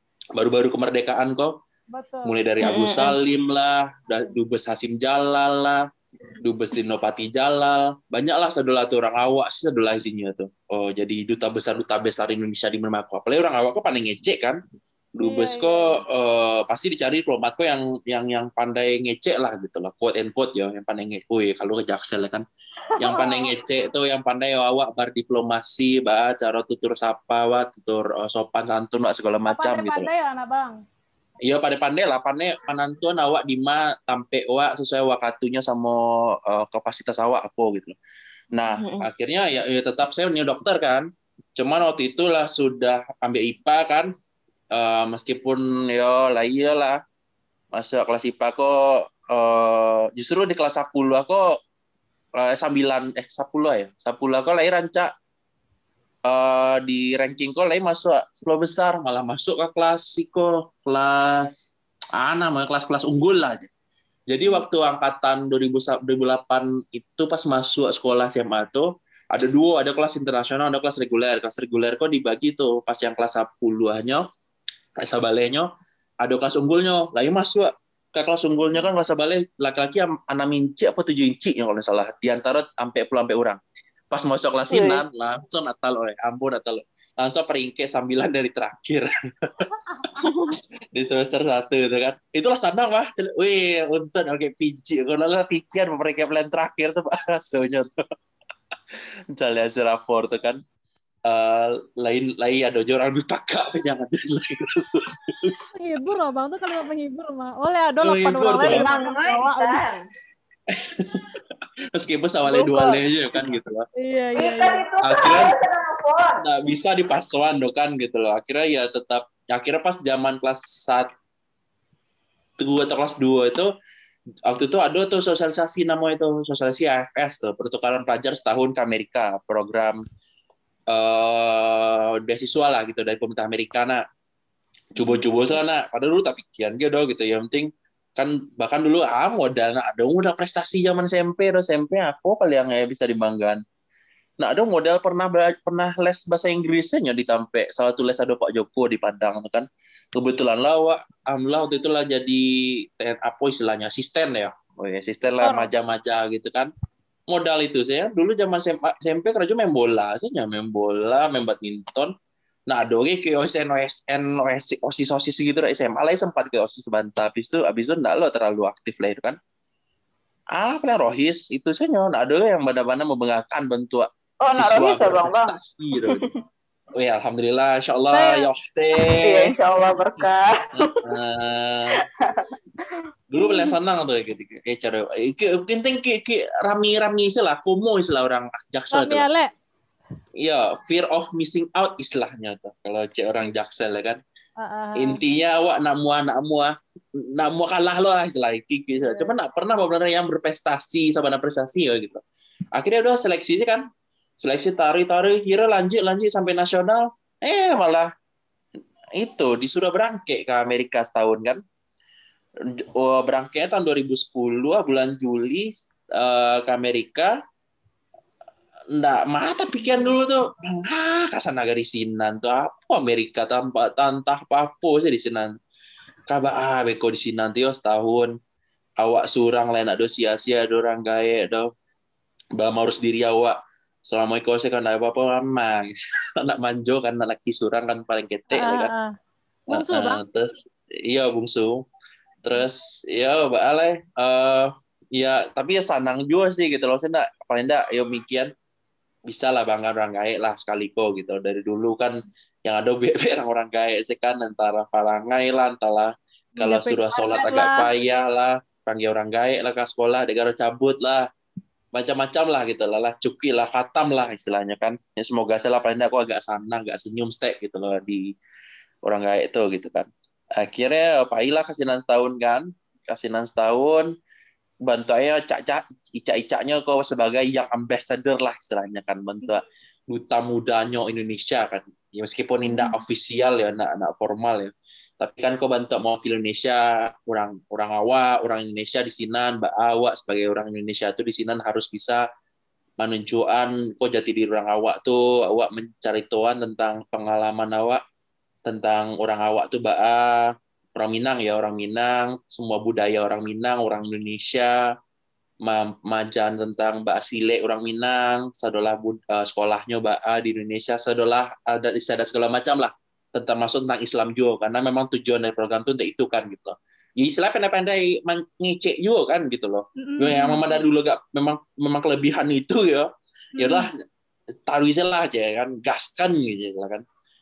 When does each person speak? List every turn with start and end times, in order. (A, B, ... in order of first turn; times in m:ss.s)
0:00.4-0:01.5 A
0:01.9-0:02.4 B
0:02.2-0:05.8 A
0:02.6-0:03.2 C
0:06.4-0:14.6 A
0:15.2-0:22.4 A
0:15.2-0:16.0 B
0:23.0-0:30.1 A
0:23.0-0:23.5 B
0:29.5-0:30.8 B
0:31.4-0:38.0 A
0:38.5-0:44.1 A
0:38.8-0:39.0 C
0:44.7-0:47.0 A
0:47.8-0:51.5 A
0:52.4-0:55.1 A
0:56.3-1:01.6 A
1:02.2-1:03.7 A
1:04.3-1:14.2 A
1:15.0-1:15.7 A
1:16.2-1:29.7 A
1:24.7-1:25.0 C
1:30.2-1:30.6 C
1:30.9-1:37.9 A
1:39.3-1:40.6 A
1:41.3-1:45.6 A
1:45.7-1:49.8 B
1:48.0-1:48.8 A
1:48.6-1:50.0 C
1:50.7-1:51.3 A
1:51.9-1:53.9 A
1:52.5-1:53.0 B
1:54.0-1:54.9 B
1:54.4-1:56.4 C
1:55.0-1:55.6 A
1:56.4-2:01.1 A
2:02.6-2:03.7 A
2:04.5-2:10.0 A
2:10.9-2:14.0 A
2:15.0-2:23.6 A
2:24.4-2:36.7 A
2:35.4-2:35.7 B
2:37.3-2:42.1 A
2:42.7-2:49.4 A
2:50.5-2:56.2 A
2:54.4-2:56.3 C
2:57.0-2:59.5 A
2:58.1-2:58.5 B
2:59.2-3:01.1 C
3:00.7-3:02.0 A
3:02.0-3:02.5 C
3:03.3-3:09.3 A
3:03.4-3:03.7 C
3:08.9-3:09.5 B
3:10.4-3:14.2 A
3:14.6-3:15.2 B
3:15.0-3:16.7 A
3:17.3-3:22.2 A
3:19.0-3:19.3 B
3:22.8-3:23.9 A
3:24.4-3:28.1 A
3:29.2-3:31.6 A
3:32.8-3:37.3 A
3:39.0-3:45.5 A
3:46.3-3:48.3 A
3:49.0-3:51.7 A
3:52.6-3:53.6 A
3:54.1-3:58.9 A
3:58.5-3:59.1 B
3:59.7-4:00.5 A
3:59.7-4:00.2 B
4:01.1-4:01.8 A
4:02.4-4:08.5 A
4:09.3-4:21.2 A
4:16.6-4:17.9 B
4:21.9-4:28.3 A
4:29.1-4:34.1 A
4:34.9-4:52.2 A
4:42.7-4:43.0 B
4:53.0-4:58.0 A
4:58.7-5:04.8 A
5:05.6-5:23.9 A
5:20.0-5:20.8 B
5:23.6-5:23.9 B
5:24.7-5:27.0 A